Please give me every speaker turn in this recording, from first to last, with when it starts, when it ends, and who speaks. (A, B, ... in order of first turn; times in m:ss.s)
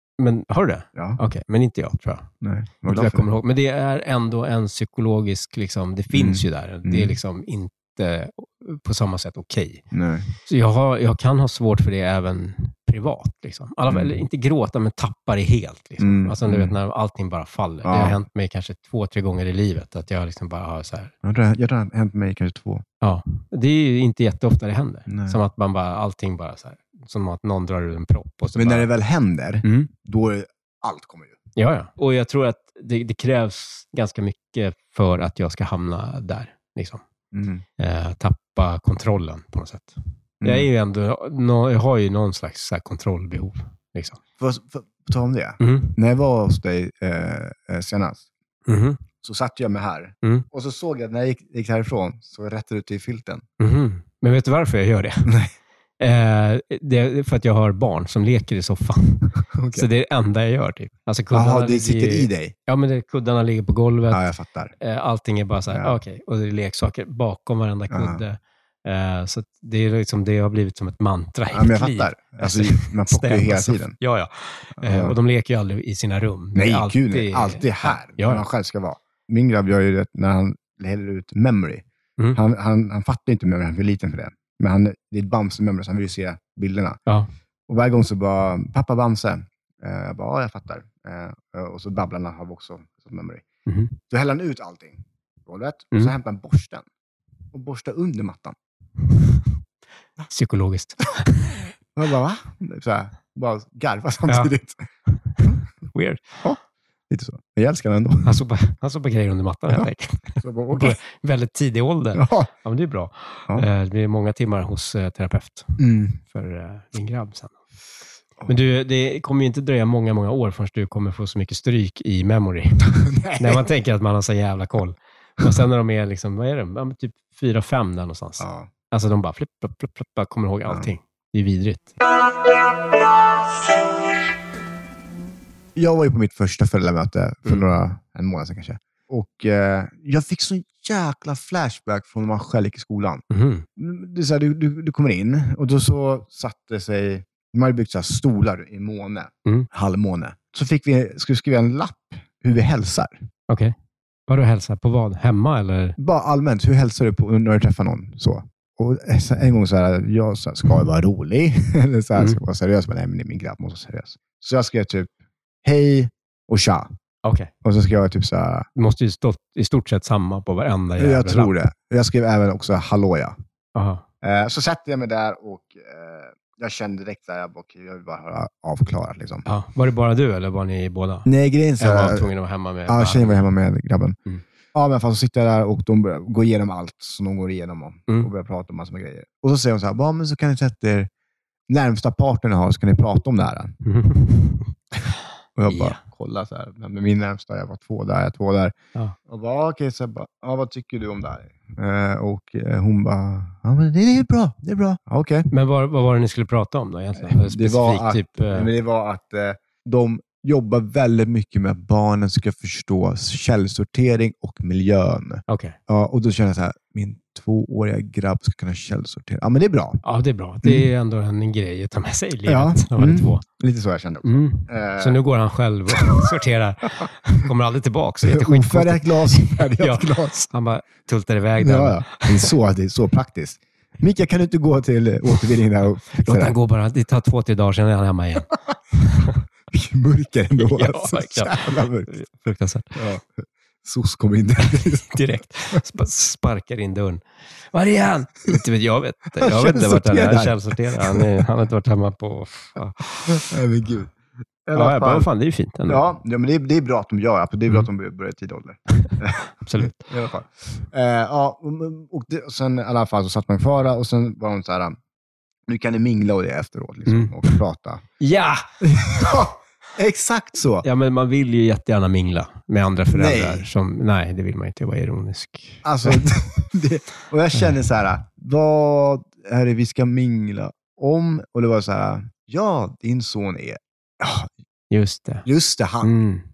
0:00.2-0:02.3 A
0:02.4-0:03.3 B
0:02.9-0:09.8 A
0:06.1-0:07.2 B
0:09.9-0:10.3 B
0:10.4-0:21.1 A
0:13.9-0:14.2 B
0:16.0-0:16.8 B
0:17.8-0:18.2 B
0:21.2-0:22.8 B
0:23.0-0:28.9 A
0:25.1-0:25.4 B
0:28.6-0:31.4 B
0:29.6-0:29.9 A
0:31.6-0:37.0 A
0:37.3-0:37.6 B
0:37.8-0:44.2 A
0:40.4-0:40.7 B
0:44.4-0:48.3 B
0:45.6-0:46.0 A
0:48.7-0:49.0 A
0:49.2-0:53.4 B
0:53.6-0:55.3 A
0:55.2-0:55.5 B
0:56.0-1:04.3 A
0:59.5-0:59.9 B
1:01.3-1:02.5 B
1:04.1-1:04.7 B
1:04.8-1:18.4 A
1:05.7-1:06.0 B
1:07.9-1:08.2 B
1:11.5-1:14.0 B
1:14.8-1:15.2 B
1:16.6-1:27.0 B
1:27.7-1:33.4 B
1:33.7-1:33.9 A
1:34.1-1:36.8 B
1:37.5-1:38.6 B
1:39.1-1:39.5 A
1:40.3-1:41.7 A
1:42.0-1:44.9 B
1:44.3-1:44.5 A
1:45.1-1:46.4 A
1:47.1-1:48.4 B
1:48.2-1:57.6 A
1:50.4-1:51.0 B
1:52.2-1:52.5 B
1:55.8-1:56.2 B
1:58.5-2:12.0 A
2:02.9-2:03.6 B
2:08.4-2:08.7 B
2:15.8-2:23.2 B
2:17.4-2:17.7 A
2:23.3-2:23.7 A
2:23.8-2:33.2 B
2:33.5-2:33.8 A
2:34.3-2:36.0 A
2:36.0-2:45.1 B
2:45.6-2:46.9 B
2:47.2-2:47.5 A
2:47.6-2:48.7 B
2:48.8-2:51.5 A
2:51.0-2:53.3 B
2:53.8-2:54.0 A
2:54.2-2:59.5 B
2:59.5-3:01.3 A
3:01.2-3:02.3 B
3:01.8-3:03.5 A
3:02.9-3:04.2 B
3:04.7-3:11.1 B
3:11.7-3:13.8 B
3:13.8-3:14.7 A
3:15.6-3:18.8 B
3:15.7-3:16.0 A
3:19.3-3:25.5 B
3:25.5-3:28.7 A
3:27.2-3:40.0 B
3:35.5-3:35.8 A
3:40.0-3:43.4 A
3:42.5-3:45.2 B
3:44.2-3:52.5 A
3:46.0-3:46.2 B
3:48.2-3:50.5 B
3:51.6-3:56.6 B
3:56.2-3:59.4 A
3:59.7-4:02.2 B
4:00.6-4:03.0 A
4:03.0-4:05.2 B
4:04.6-4:13.5 A
4:09.4-4:11.4 B
4:13.3-4:14.1 B
4:14.7-4:15.3 B
4:14.7-4:16.0 A
4:15.9-4:25.0 B
4:19.0-4:20.1 A
4:25.7-4:28.0 B
4:27.1-4:27.6 A
4:28.2-4:28.7 A
4:28.8-4:30.9 B
4:30.8-4:36.3 A
4:33.1-4:33.7 B
4:35.8-4:44.5 B
4:44.9-4:45.5 A
4:45.4-4:46.2 B
4:46.0-4:46.4 A